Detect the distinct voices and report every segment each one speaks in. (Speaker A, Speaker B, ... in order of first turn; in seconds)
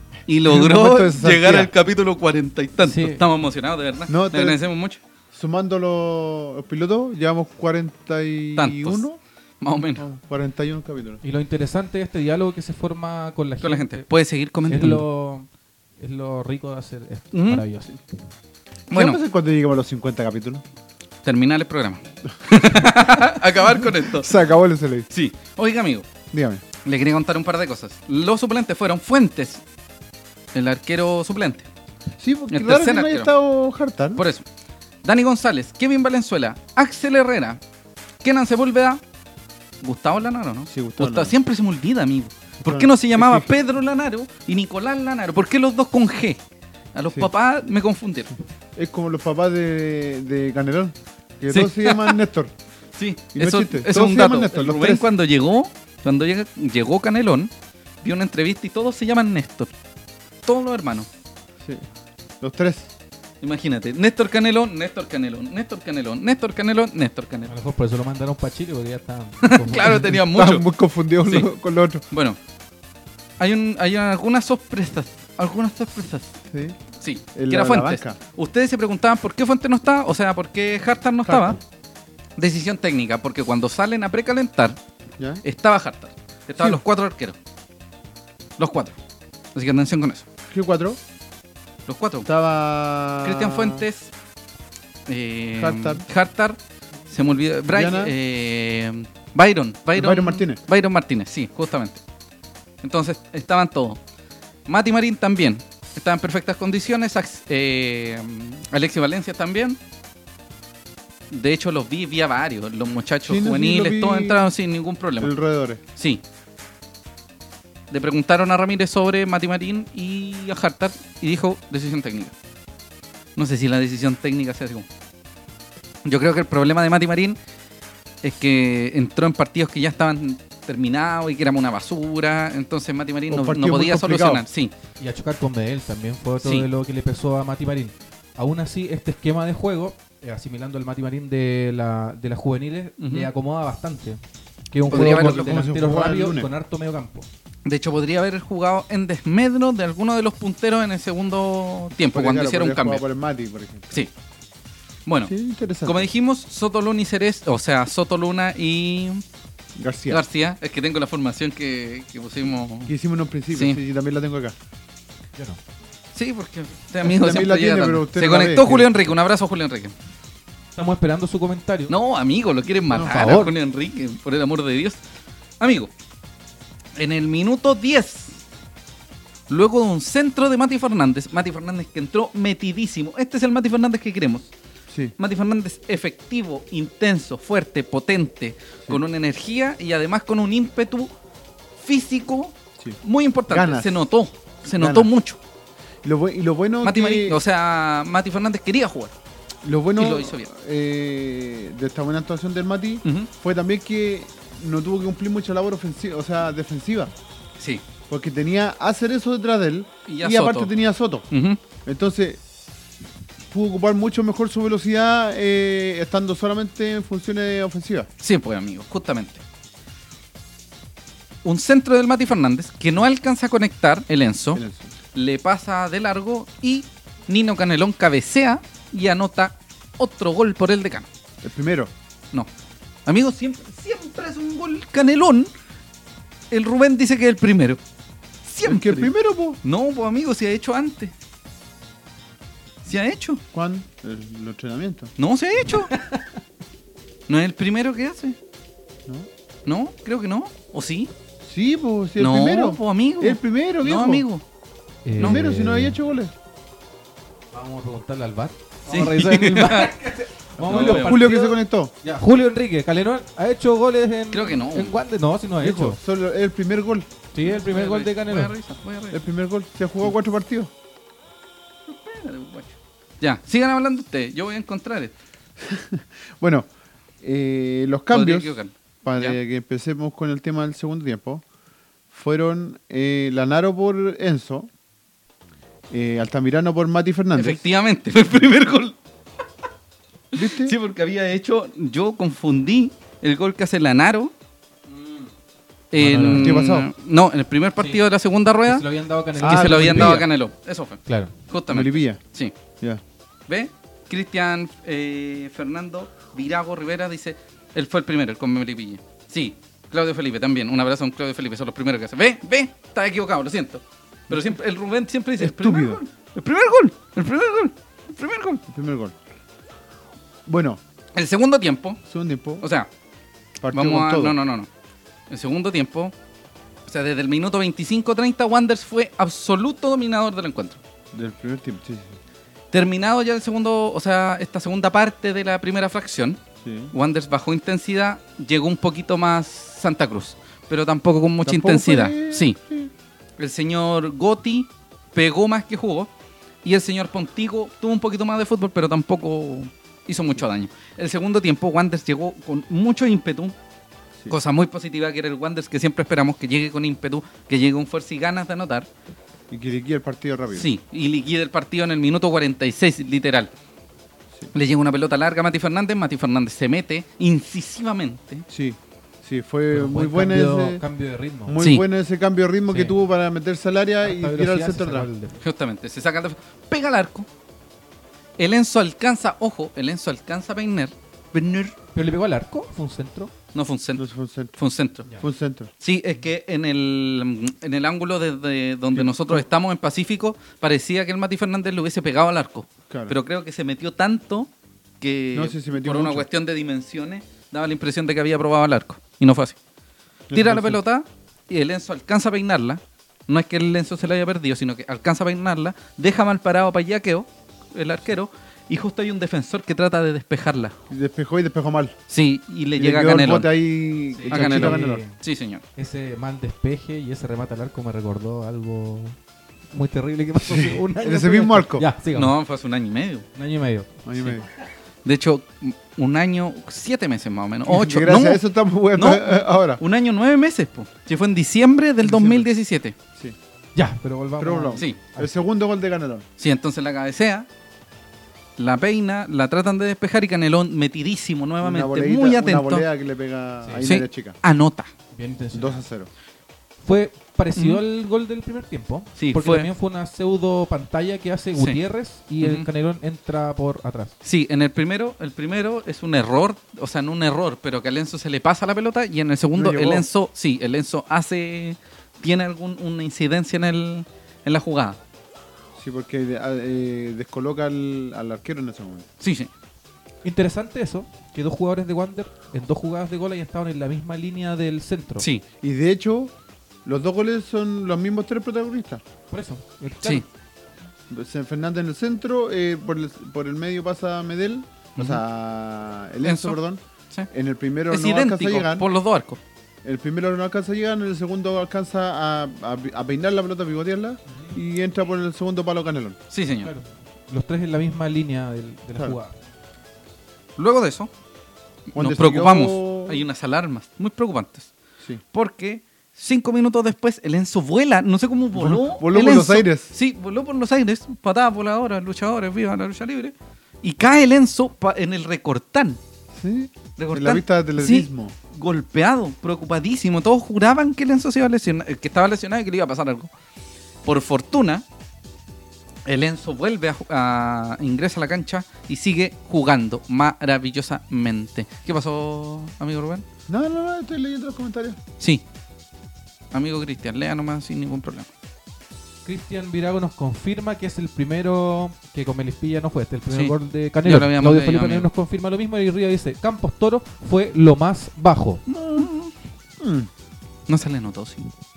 Speaker A: 0.3-5.0, 8.6-9.1, 9.6-10.1, 13.6-15.1, 17.3-17.6, 18.9-19.2, 21.2-24.4, 25.1-26.1, 26.8-29.6, 30.5-31.7, 32.5-33.3, 34.2-34.4, 35.0-37.6, 38.2-39.0, 39.8-46.4, 47.0-48.4, 51.5-52.2, 53.0-57.5, 58.0-59.7, 60.5-61.1, 63.4-67.5, 69.4-70.7, 72.1-72.4, 73.4-76.4, 77.0-81.6, 82.4-84.8, 85.4-87.4, 88.6-89.0, 89.5-90.2, 91.9-92.3, 93.2-94.1, 95.1-96.6, 97.1-102.0, 102.8-104.0, 104.7-109.8, 111.3-115.3, 116.0-116.2, 117.9-122.3, 123.4-124.9, 126.0-127.4, 128.2-134.7, 136.4-136.7, 143.0-143.3, 144.9-145.6, 147.7-153.0, 155.1-155.3, 155.9-159.2, 160.1-162.9, 163.5-163.8, 166.2-169.9, 171.9-175.0, 175.6-175.9, 177.0-178.4, 179.5-184.5, 185.2-191.1, 191.8-195.4, 196.8-199.1, 200.0-200.5, 210.1-210.7, 211.3-211.6, 218.2-219.4, 221.4-224.6, 225.2-231.1, 233.1-235.5, 236.5-237.8, 238.4-241.1, 242.8-243.4, 245.2-245.9, 247.3-248.4, 249.7-251.1, 252.2-254.4, 258.9-259.9, 260.6-261.2, 264.3-264.9, 267.4-269.3, 271.9-275.1, 278.1-279.4, 287.4-289.0, 290.3-294.3, 295.9-302.6, 303.5-318.6, 321.1-322.0, 322.6-322.9, 323.7-324.7, 325.3-326.1, 326.9-330.8, 332.7-336.4, 336.9-342.6, 343.4-346.1, 346.6-353.6, 354.3-358.9, 360.5-363.5, 364.5-368.4, 371.6-371.8, 375.4-377.3, 378.4-381.8, 383.5-384.1, 384.6-385.1, 385.8-394.5, 395.0-399.6, 400.3-410.8, 412.1-413.5, 414.3-415.6, 422.1-423.3, 425.1-428.4, 428.9-429.2, 429.8-432.9, 436.4-437.5, 438.6-442.9, 443.8-444.9, 447.6-447.8, 449.2-449.7, 452.4-452.7, 454.2-465.0, 469.2-469.5, 485.0-485.2, 486.2-486.6, 487.9-489.4, 496.3-496.7, 500.6-501.1, 501.9-504.7, 505.3-516.0, 517.0-523.3, 524.0-524.9, 526.1-533.3, 536.5-538.3, 543.3-545.1, 549.0-549.3, 550.7-551.5
Speaker B: 0.5-1.7, 4.1-4.6, 5.3-9.2, 10.0-11.2, 18.9-20.6, 22.6-25.1, 26.3-26.6, 32.2-34.2, 40.7-41.4, 42.6-43.5, 48.8-52.5, 53.4-55.1, 61.6-61.9, 62.4-62.9, 70.0-72.0, 76.5-76.8, 77.3-78.2, 81.2-81.6, 85.2-85.4, 86.6-86.8, 90.5-91.0, 92.2-93.9, 95.5-96.0, 97.7-98.1, 100.0-100.6, 113.2-114.4, 115.2-115.8, 133.3-134.4, 144.9-146.5, 152.1-154.0, 155.2-156.1, 159.8-160.2, 162.9-164.6, 167.0-168.9, 172.9-173.5, 184.9-185.1, 192.8-194.0, 194.6-195.1, 196.0-197.4, 199.6-207.1, 208.1-211.3, 211.8-212.4, 213.5-218.1, 224.5-224.9, 231.4-231.9, 238.6-239.6, 243.5-245.1, 251.4-254.3, 255.2-256.3, 260.6-261.9, 265.6-267.1, 269.1-270.7, 275.6-276.7, 277.2-281.4, 282.1-284.7, 285.9-287.6, 290.3-290.8, 296.2-296.9, 299.4-300.2, 301.7-302.2, 314.3-314.6, 315.4-316.0, 318.7-319.2, 320.5-320.8, 322.1-322.6, 323.6-324.4, 331.1-332.2, 336.6-336.9, 341.4-342.9, 359.5-360.7, 368.5-370.8, 371.5-375.1, 384.0-384.6, 385.1-385.7, 388.9-389.4, 392.9-393.2, 395.3-396.3, 400.3-400.8, 410.9-412.0, 412.8-415.0, 420.4-421.9, 424.1-424.5, 427.7-429.8, 432.0-432.5, 434.4-436.3, 441.6-444.4, 445.5-446.1, 459.6-460.1, 465.8-469.1, 475.6-476.3, 476.9-479.0, 481.1-488.9, 489.8-496.2, 501.9-503.2, 508.6-509.9, 516.3-518.4, 533.5-535.0, 548.7-549.1, 549.8-550.1
Speaker C: 2.8-3.3, 11.2-14.1, 14.7-15.5, 16.0-18.0, 67.5-70.2, 135.0-144.2, 144.7-147.3, 170.8-171.9, 173.0-173.5, 245.9-246.3, 255.1-256.0, 257.5-266.0, 267.3-268.5, 294.9-295.3, 296.0-296.6, 298.7-300.3, 301.1-301.3, 369.7-371.6, 374.0-375.4, 381.9-383.3, 414.2-415.2, 415.8-419.2, 419.7-422.4, 423.4-424.0, 433.8-435.4, 445.1-445.8, 446.8-454.1, 470.2-475.3, 479.3-480.2, 496.6-499.4, 539.3-548.6